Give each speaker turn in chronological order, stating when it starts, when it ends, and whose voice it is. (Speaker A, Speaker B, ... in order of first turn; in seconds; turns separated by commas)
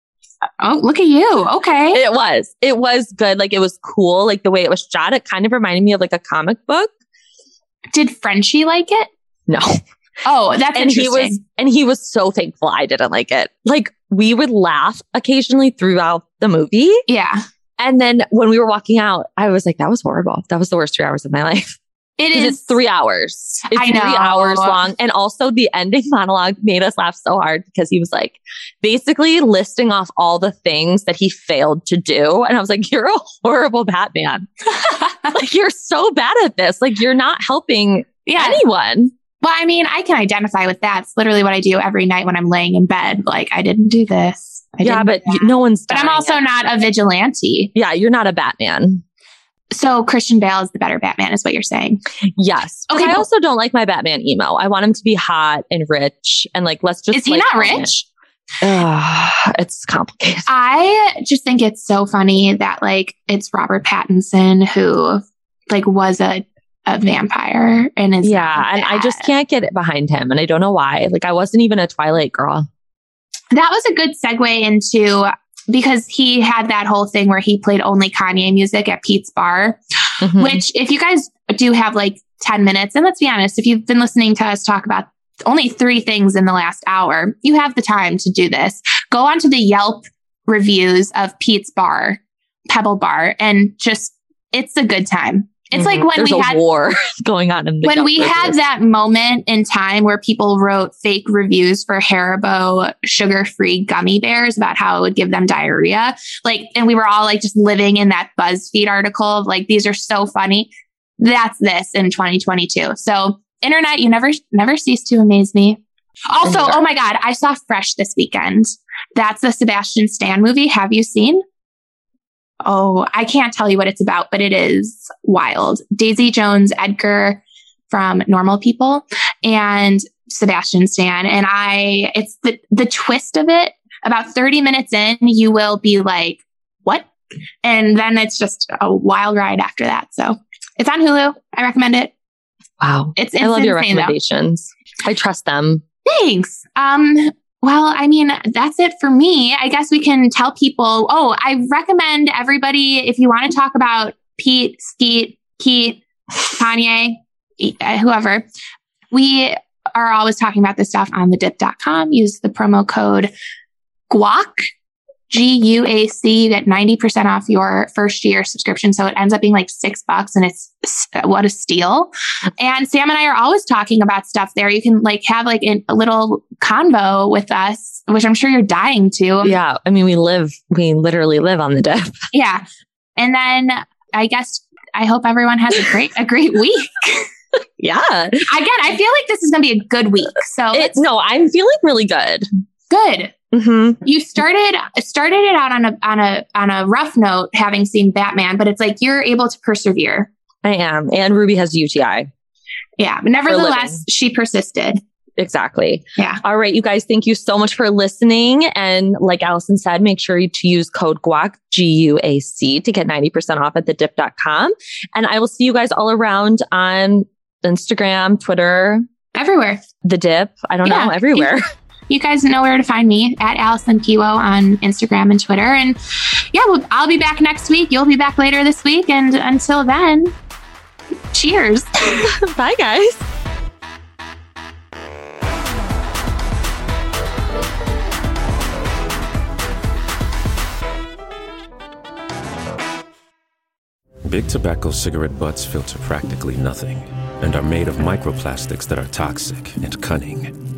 Speaker A: 0.6-2.0, Speaker B: 1.9-6.9, Speaker A: 7.9-9.1, Speaker B: 9.5-9.8, Speaker A: 10.2-11.4, Speaker B: 10.7-17.0, Speaker A: 17.1-17.4, Speaker B: 17.8-21.8, Speaker A: 22.2-22.8, Speaker B: 22.3-34.5, Speaker A: 23.7-24.8, Speaker A: 34.8-35.3, Speaker B: 35.3-39.1, Speaker A: 38.3-38.6, Speaker A: 39.4-47.7, Speaker B: 44.8-46.4, Speaker B: 47.7-49.0, Speaker A: 49.7-52.0, Speaker B: 52.4-57.9, Speaker A: 52.9-53.2, Speaker A: 57.1-58.0, Speaker B: 58.6-60.5, Speaker A: 60.5-69.3, Speaker B: 68.2-72.7, Speaker A: 73.5-79.8, Speaker B: 80.2-80.6, Speaker A: 80.4-96.6, Speaker B: 95.7-98.6, Speaker A: 97.8-121.4, Speaker B: 116.4-116.8, Speaker A: 122.6-137.1, Speaker A: 137.6-142.1, Speaker B: 142.8-145.8, Speaker A: 143.2-144.2, Speaker A: 146.1-158.4, Speaker A: 159.1-163.3, Speaker A: 164.1-164.6, Speaker A: 165.3-179.6, Speaker B: 179.4-182.2, Speaker A: 182.3-182.6, Speaker A: 183.2-187.3, Speaker B: 187.8-188.5, Speaker A: 188.5-191.0, Speaker B: 190.7-192.5, Speaker A: 192.9-193.3, Speaker B: 193.5-194.0, Speaker A: 194.0-200.3, Speaker B: 200.6-202.3, Speaker A: 203.0-205.0, Speaker B: 203.4-204.0, Speaker B: 205.4-219.1, Speaker A: 219.3-219.8, Speaker B: 220.0-221.6, Speaker A: 220.8-221.5, Speaker A: 222.1-226.0, Speaker A: 226.5-230.3, Speaker A: 231.3-231.9, Speaker B: 232.0-233.2, Speaker C: 244.2-250.5